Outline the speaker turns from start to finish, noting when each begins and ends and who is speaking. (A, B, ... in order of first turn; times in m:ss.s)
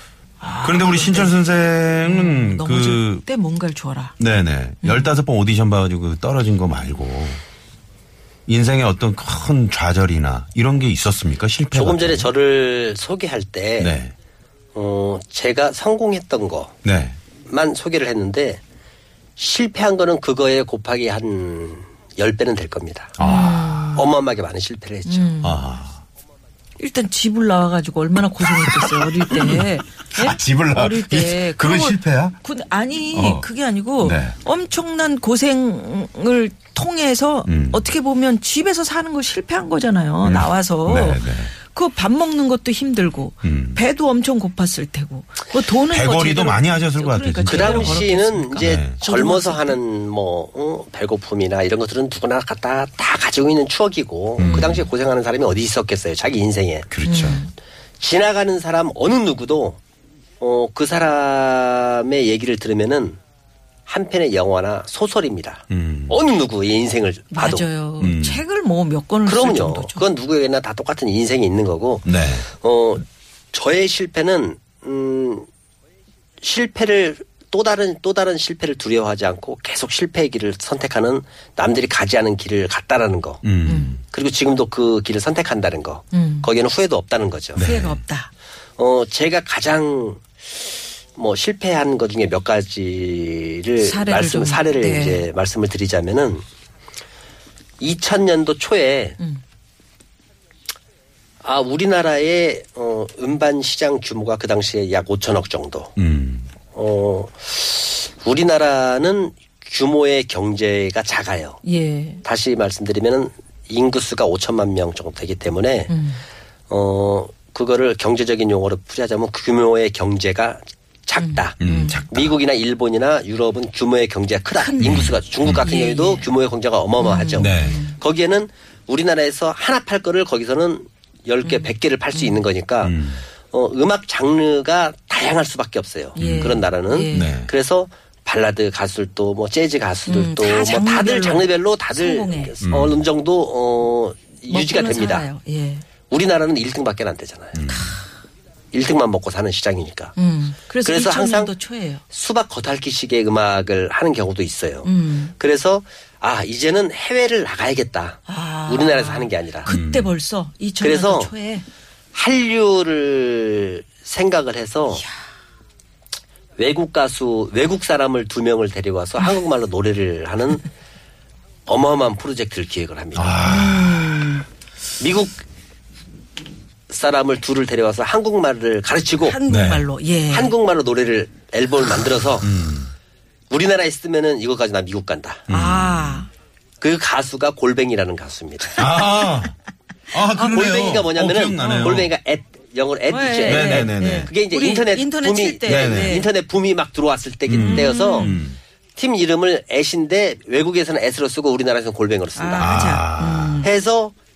0:00.4-0:01.4 A
0:00.6-0:03.2 B
0:02.0-0:04.1 A
0:04.2-0:07.4 B
0:04.8-0:05.2 A
0:08.5-0:12.3 B
0:11.7-0:13.9 C
0:13.8-0:14.1 B
0:14.7-0:16.7 C
0:16.8-0:17.2 B
0:17.5-0:18.6 C
0:19.4-0:23.1 C
0:23.2-0:24.0 B
0:23.2-0:24.1 A
0:23.9-0:25.3 C
0:25.0-0:25.6 A
0:25.4-0:26.0 B
0:26.8-0:49.8 A
0:28.4-0:32.4 B
0:33.1-0:33.5 B
0:34.0-0:34.4 B
0:37.4-0:37.9 B
0:40.2-0:41.5 B
0:43.4-0:43.8 B
0:45.8-0:49.0 B
0:47.5-0:56.8 C
0:54.4-0:54.8 B
0:54.4-0:54.8 A
0:56.9-0:57.4 B
0:57.0-0:57.5 A
0:58.0-0:59.8 C
1:00.4-1:03.1 C
1:03.9-1:07.6 C
1:05.7-1:06.2 B
1:07.3-1:10.0 A
1:08.0-1:08.4 B
1:09.2-1:12.8 C
1:12.0-1:12.5 B
1:13.5-1:15.4 C
1:16.4-1:23.4 C
1:23.4-1:24.0 B
1:23.6-1:24.0 A
1:24.0-1:27.6 C
1:26.1-1:26.5 A
1:27.6-1:28.0 B
1:27.6-1:28.3 A
1:28.8-1:30.1 C
1:31.2-1:36.4 C
1:33.8-1:35.2 A
1:37.8-1:39.2 C
1:41.4-1:45.9 C
1:46.0-1:46.5 B
1:46.7-1:51.6 C
1:51.6-1:52.2 A
1:52.2-1:55.9 C
1:55.9-1:56.2 A
1:56.7-2:01.5 C
2:01.2-2:02.0 A
2:01.6-2:02.3 B
2:02.1-2:25.3 C
2:04.5-2:06.3 A
2:04.8-2:05.7 B
2:07.0-2:08.0 A
2:07.4-2:07.8 B
2:11.4-2:12.4 A
2:12.8-2:13.2 B
2:16.1-2:17.4 A
2:16.2-2:17.5 B
2:20.1-2:22.5 A
2:22.6-2:23.0 B
2:24.5-2:25.8 A
2:26.1-2:27.5 C
2:27.5-2:27.9 B
2:27.7-2:28.0 A
2:28.7-2:30.1 C
2:30.2-2:32.0 A
2:30.8-2:31.5 C
2:32.1-2:39.7 C
2:34.8-2:35.3 A
2:38.3-2:41.6 A
2:39.6-2:40.1 B
2:40.8-2:41.3 C
2:42.1-2:45.0 C
2:46.6-2:50.6 C
2:51.7-2:53.2 C
2:53.1-2:54.4 B
2:53.4-2:54.4 A
2:55.0-2:55.3 C
2:56.9-2:59.4 C
2:59.2-3:00.5 A
2:59.5-2:59.9 B
3:00.3-3:02.5 C
3:02.4-3:02.9 B
3:03.5-3:05.4 C
3:05.5-3:06.2 B
3:05.5-3:06.3 A
3:06.8-3:08.7 C
3:08.7-3:09.6 B
3:10.1-3:12.1 B
3:10.1-3:10.7 A
3:10.5-3:18.3 C
3:11.6-3:11.9 A
3:13.1-3:16.3 A
3:13.4-3:14.3 B
3:15.6-3:16.2 B
3:17.5-3:18.6 B
3:17.6-3:18.5 A
3:19.0-3:22.8 C
3:22.4-3:23.7 A
3:22.6-3:23.6 B
3:23.6-3:24.1 C